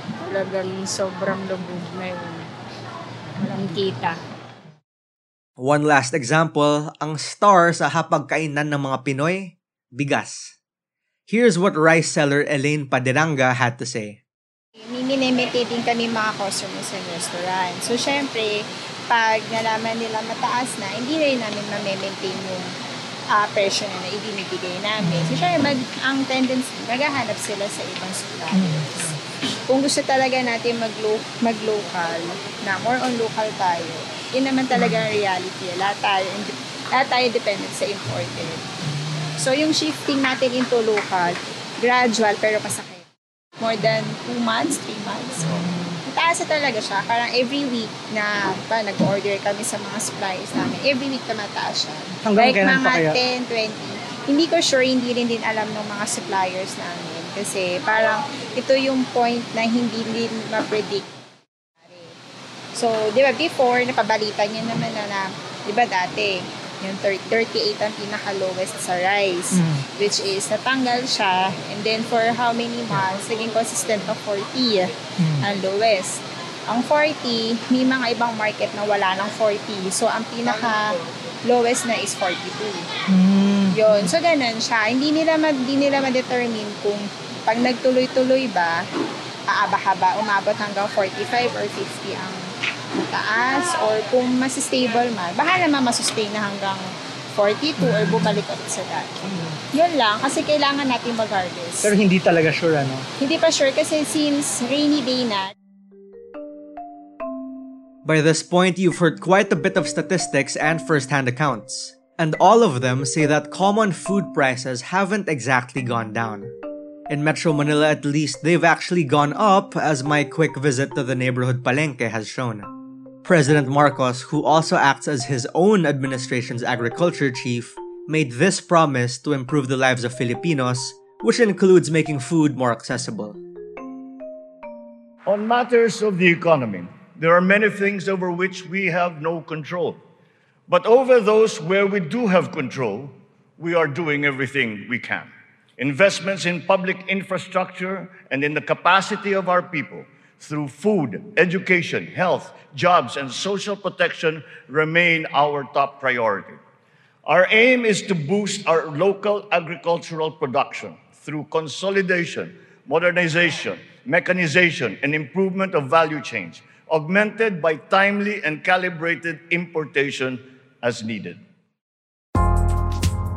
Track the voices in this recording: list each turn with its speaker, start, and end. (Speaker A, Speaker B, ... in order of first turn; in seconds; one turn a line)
Speaker A: 0.2-2.5
Speaker A: 3.4-4.2
Speaker B: 5.6-10.5
Speaker B: 11.3-14.2
Speaker C: 14.8-18.5
Speaker C: 19.1-22.7
Speaker C: 23.3-29.1
Speaker D: 25.0-25.5
Speaker C: 29.7-38.6
Speaker D: 34.7-35.0
Speaker C: 39.4-43.0
Speaker C: 43.6-61.0
Speaker D: 45.4-46.0
Speaker D: 52.2-53.2
Speaker C: 61.9-62.1
Speaker C: 62.7-80.9
Speaker D: 69.5-69.8
Speaker C: 81.5-82.8
Speaker D: 83.1-84.1
Speaker C: 83.7-88.8
Speaker C: 89.5-92.4
Speaker C: 93.0-96.8
Speaker C: 97.3-99.2
Speaker D: 97.8-98.3
Speaker D: 99.3-99.5
Speaker C: 99.7-101.9
Speaker D: 101.8-103.0
Speaker C: 103.2-105.5
Speaker B: 108.0-116.5
Speaker B: 117.1-122.7
Speaker B: 123.2-133.4
Speaker E: 135.3-140.0
Speaker E: 140.7-156.6
Speaker E: 157.3-171.4